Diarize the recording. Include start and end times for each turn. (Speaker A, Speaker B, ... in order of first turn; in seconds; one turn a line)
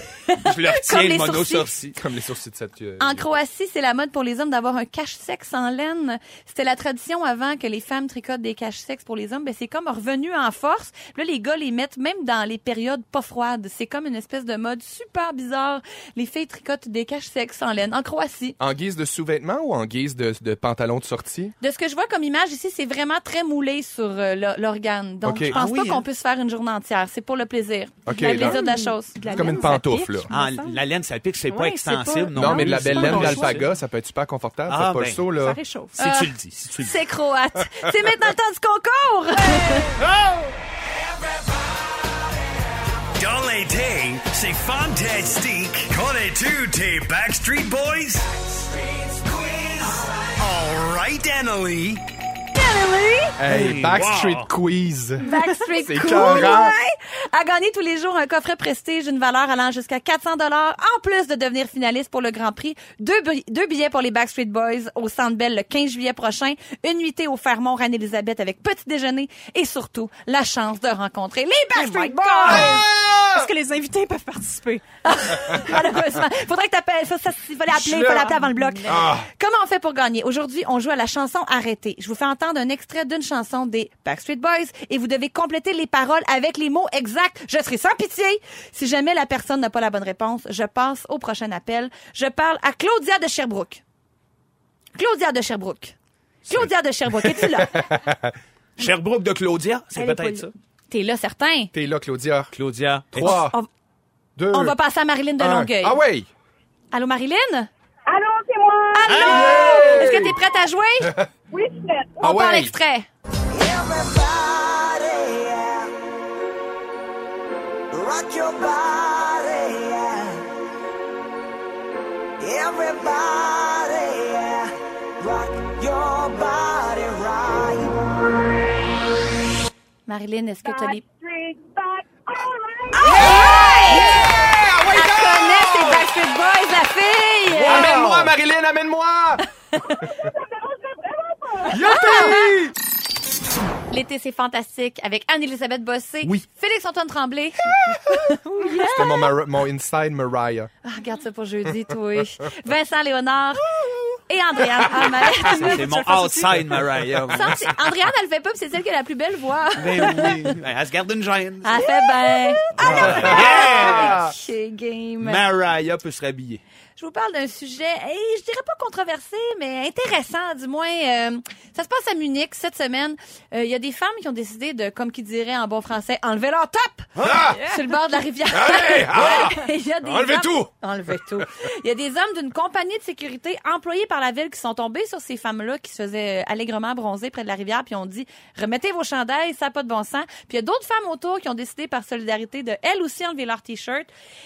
Speaker A: 0.2-1.7
Speaker B: 0.4-2.0
Speaker C: 1.9-3.3
Speaker A: 3.0-18.6
Speaker C: 18.6-21.5
Speaker A: 21.6-29.8
Speaker C: 25.2-25.6
Speaker B: 25.5-26.0
Speaker C: 28.0-30.3
Speaker D: 28.1-30.8
Speaker B: 30.3-33.7
Speaker D: 31.5-33.7
Speaker C: 32.3-35.6
Speaker B: 34.7-35.2
Speaker D: 35.3-36.0
Speaker B: 36.0-37.0
Speaker A: 36.0-40.0
Speaker D: 39.4-40.0
Speaker E: 40.2-40.5
Speaker E: 41.0-42.1
Speaker E: 43.0-52.0
Speaker A: 52.5-53.4
Speaker C: 53.4-56.7
Speaker B: 53.5-54.5
Speaker A: 55.2-72.8
Speaker D: 56.0-56.6
Speaker D: 71.7-75.7
Speaker C: 72.5-73.5
Speaker A: 75.0-93.8
Speaker D: 77.8-79.1
Speaker C: 78.9-79.3
Speaker A: 94.9-96.0
Speaker A: 96.5-97.8
Speaker C: 97.2-98.3
Speaker B: 98.8-100.5
Speaker A: 100.0-101.7
Speaker C: 101.7-102.5
Speaker B: 102.5-103.4
Speaker C: 103.1-103.5
Speaker A: 103.2-103.7
Speaker C: 104.3-104.8
Speaker A: 104.5-106.0
Speaker C: 105.4-106.3
Speaker A: 106.9-107.7
Speaker F: 108.1-109.1
Speaker A: 108.9-111.2
Speaker B: 109.1-109.8
Speaker C: 109.2-110.4
Speaker F: 111.5-112.4
Speaker A: 112.2-113.1
Speaker C: 112.2-112.7
Speaker G: 113.6-115.8
Speaker G: 117.9-120.4
Speaker G: 122.4-124.6
Speaker G: 125.2-127.9
Speaker A: 130.1-131.0
Speaker F: 130.6-133.8
Speaker A: 132.9-138.1
Speaker C: 133.2-136.0
Speaker C: 137.6-139.4
Speaker F: 139.9-142.1
Speaker C: 141.7-142.7
Speaker A: 141.7-142.5
Speaker A: 143.9-149.2
Speaker C: 147.8-150.7
Speaker D: 148.6-149.2
Speaker A: 150.8-153.7
Speaker A: 154.3-156.1
Speaker D: 155.0-156.6
Speaker B: 155.5-157.7
Speaker A: 157.3-160.5
Speaker B: 159.8-161.8
Speaker A: 161.6-165.4
Speaker D: 162.0-163.0
Speaker B: 162.8-164.3
Speaker C: 162.8-164.3
Speaker B: 165.2-166.6
Speaker A: 167.0-194.1
Speaker B: 177.2-177.4
Speaker E: 177.2-177.6
Speaker D: 177.5-177.8
Speaker E: 178.5-179.5
Speaker C: 179.1-179.5
Speaker E: 180.1-180.7